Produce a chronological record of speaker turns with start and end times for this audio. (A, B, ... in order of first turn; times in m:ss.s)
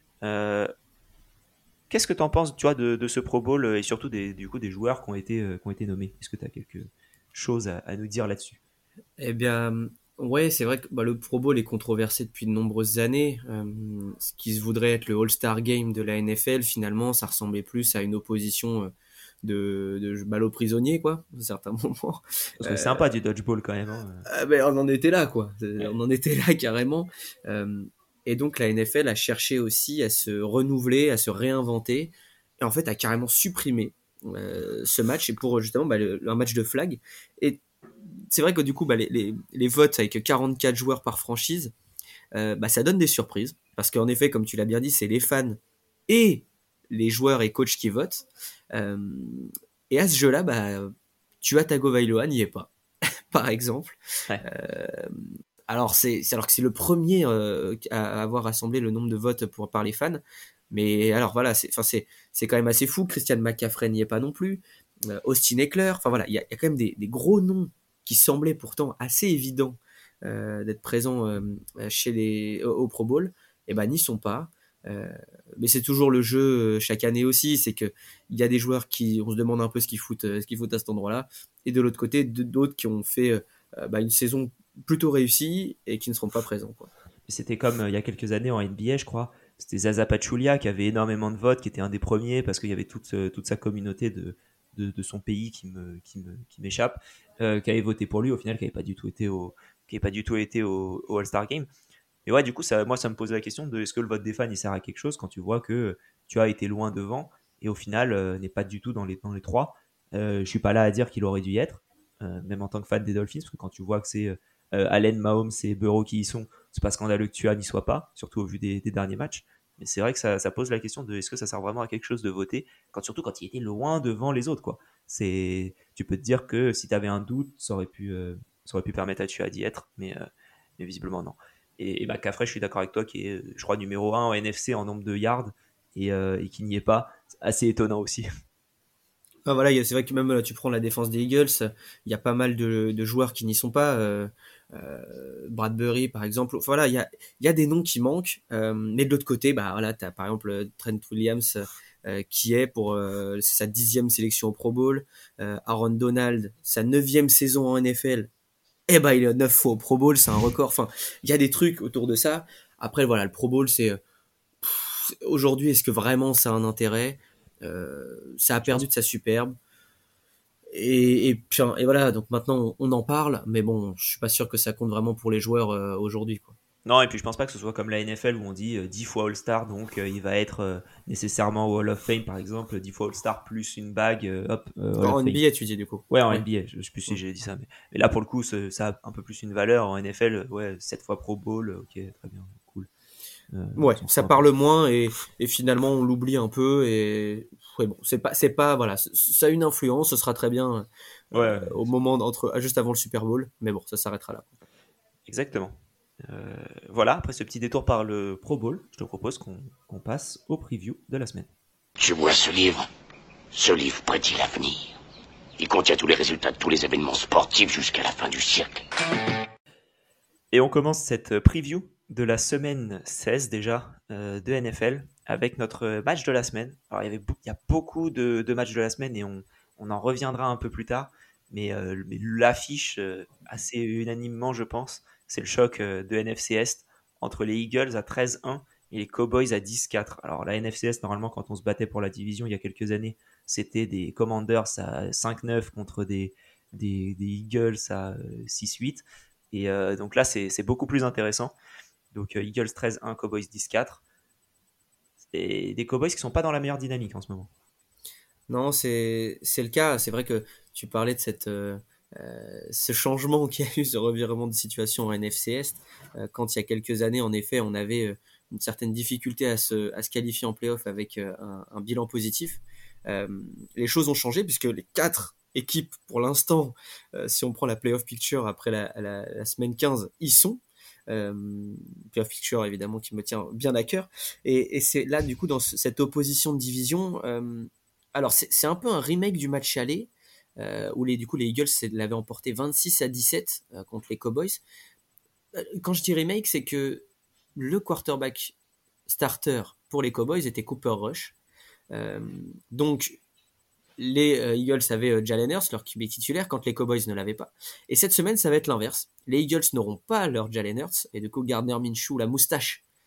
0:00.2-0:00.7 A
0:01.9-0:08.6 A
0:09.2-0:18.9 B
0:19.4-0:23.0 B
0:22.6-0:24.2 A
0:24.2-0:37.6 B
0:38.3-0:41.7 B
0:42.3-0:52.7 B
0:53.3-1:26.9 B
1:27.3-1:41.7 A
1:42.2-2:10.3 A
2:10.8-2:18.3 A
2:19.4-2:38.3 B
2:38.9-2:44.0 B
2:44.6-2:49.5 B
2:50.7-2:56.6 B
2:56.8-3:05.4 A
3:05.0-3:06.4 B
3:06.1-3:12.9 A
3:13.5-3:14.4 A
3:13.8-3:24.6 B
3:21.3-3:21.8 A
3:25.3-3:31.5 A
3:32.0-3:32.8 C
3:33.5-3:34.9 C
3:35.6-3:38.8 C
3:40.5-4:11.5 A
4:12.1-4:14.0 A
4:15.3-4:17.5 A
4:18.5-4:54.6 B
4:55.5-4:57.0 B
4:57.6-4:58.5 B
4:59.0-5:01.3 B
5:01.9-5:03.2 B
5:04.0-5:12.8 B